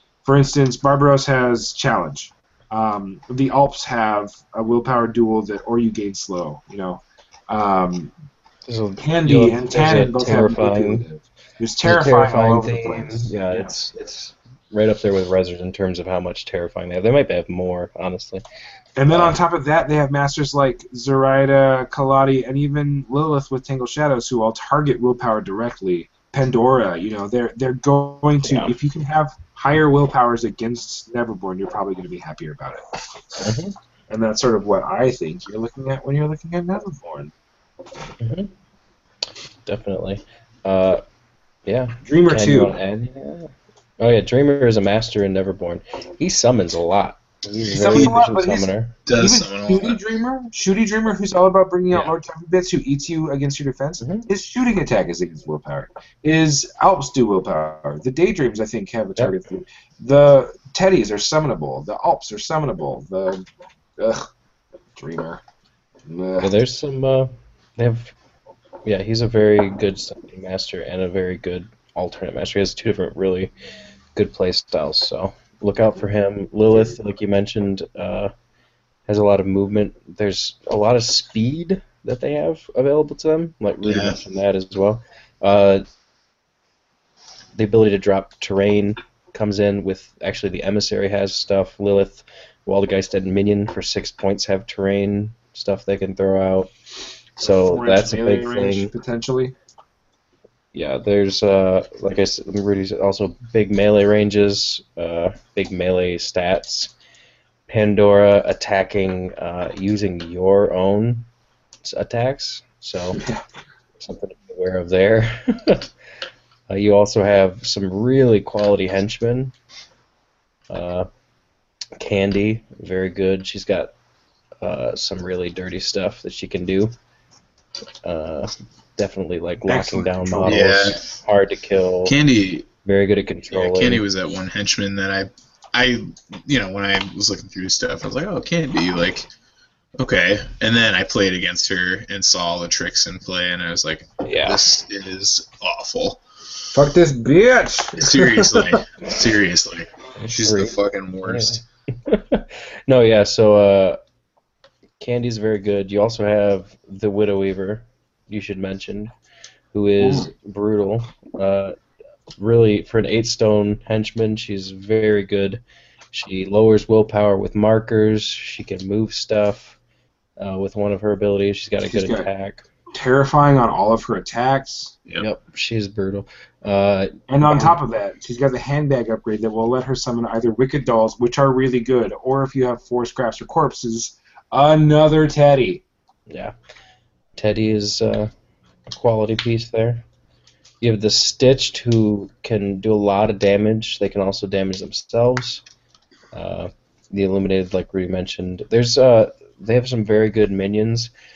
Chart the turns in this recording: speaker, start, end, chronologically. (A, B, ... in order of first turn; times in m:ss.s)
0:00.2-0:08.1 A
0:08.6-0:11.0 B
0:09.0-0:13.7 A
0:11.8-0:18.4 B
0:19.0-0:32.9 A
0:19.1-0:19.4 B
0:28.4-0:28.7 B
0:33.4-0:33.7 B
0:34.1-0:37.3 A
0:38.2-0:38.5 B
0:39.6-0:41.0 B
0:41.6-0:48.9 B
0:42.0-0:42.8 A
0:47.7-1:03.4 A
0:47.9-0:48.2 C
0:49.0-0:50.0 C
0:54.0-0:54.2 B
1:04.0-1:04.3 A
1:04.9-1:05.4 A
1:06.0-1:06.5 A
1:06.4-1:08.1 B
1:08.8-1:13.5 B
1:14.1-1:18.3 B
1:19.1-1:25.8 B
1:23.8-1:24.2 C
1:27.5-1:36.7 B
1:37.4-1:38.9 B
1:37.4-1:39.5 A
1:40.7-1:46.9 B
1:47.7-1:51.3 B
1:51.8-1:53.2 B
1:53.1-1:53.4 A
1:54.0-1:55.9 B
1:56.7-1:59.5 B
2:00.7-2:01.1 B
2:02.0-2:03.9 B
2:04.6-2:06.9 B
2:08.0-2:12.1 B
2:09.7-2:10.9 A
2:10.4-2:11.0 C
2:12.0-2:12.7 C
2:12.8-2:14.0 B
2:13.5-2:19.3 C
2:20.0-2:26.2 C
2:24.2-2:24.6 B
2:26.7-2:28.8 A
2:28.0-2:31.6 C
2:30.2-2:34.0 B
2:35.0-2:39.1 B
2:39.7-2:41.7 B
2:40.0-2:40.3 C
2:42.4-2:49.8 B
2:50.4-2:52.7 B
2:51.8-2:52.3 A
2:52.9-2:55.0 A
2:55.2-2:57.8 B
2:57.3-3:05.8 A
3:06.3-3:06.5 B
3:07.4-3:08.3 B
3:08.9-3:10.0 B
3:10.8-3:15.6 B
3:16.3-3:21.1 B